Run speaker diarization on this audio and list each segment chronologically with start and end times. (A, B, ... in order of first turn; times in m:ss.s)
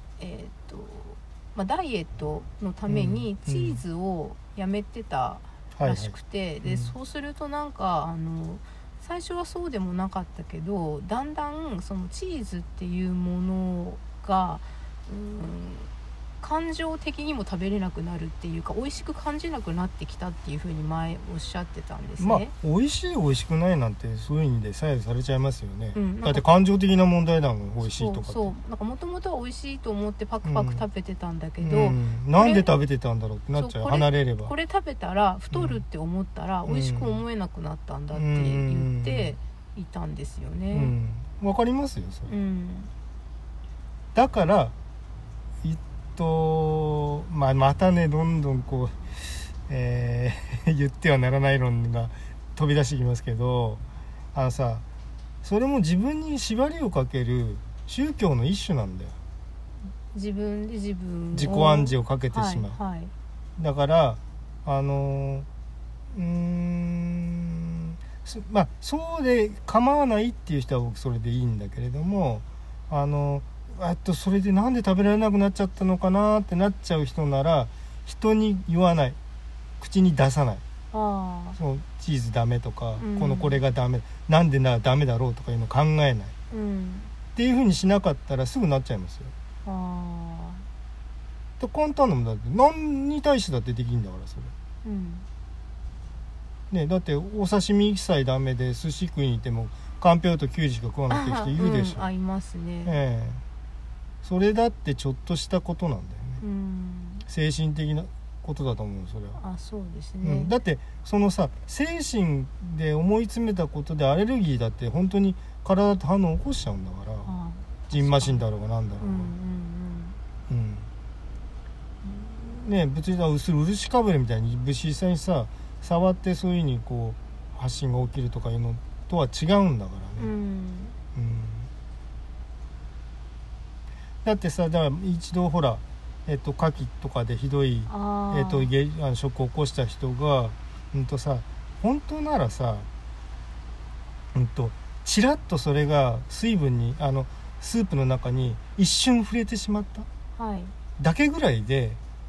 0:00.2-0:22.5 A
0:02.9-0:03.8 B
0:05.7-0:06.9 B
0:22.2-0:28.5 B
0:25.9-0:26.4 A
0:27.8-0:32.7 A
0:30.4-0:30.8 B
0:31.6-0:34.5 B
0:33.6-0:40.9 A
0:35.5-0:35.8 B
0:36.7-0:37.2 B
0:38.1-0:39.4 B
0:40.7-0:42.3 B
0:42.3-0:42.9 A
0:44.1-0:44.7 B
0:45.6-0:54.8 B
0:55.4-0:59.2 B
1:00.1-1:03.1 A
1:01.3-1:02.8 B
1:03.6-1:05.5 B
1:06.1-1:19.2 B
1:19.8-1:20.6 B
1:20.9-1:21.6 A
1:21.5-1:26.3 B
1:23.0-1:23.6 A
1:26.5-1:27.1 A
1:27.3-1:29.3 B
1:29.6-1:30.6 A
1:31.6-1:34.5 B
1:34.8-1:35.2 A
1:36.7-1:42.1 B
1:41.1-1:43.0 A
1:42.8-1:43.4 B
1:44.2-1:46.4 B
1:46.4-1:47.2 A
1:47.2-1:49.4 B
1:49.4-1:50.5 A
1:50.2-1:57.3 B
1:57.2-1:58.4 A
1:57.9-1:59.3 B
1:59.0-2:00.2 A
2:00.5-2:00.9 B
2:02.0-2:10.3 B
2:10.2-2:11.0 A
2:11.1-2:11.7 B
2:14.2-2:22.9 B
2:17.9-2:18.7 A
2:24.3-2:30.1 B
2:30.4-2:30.7 A
2:31.0-2:32.0 B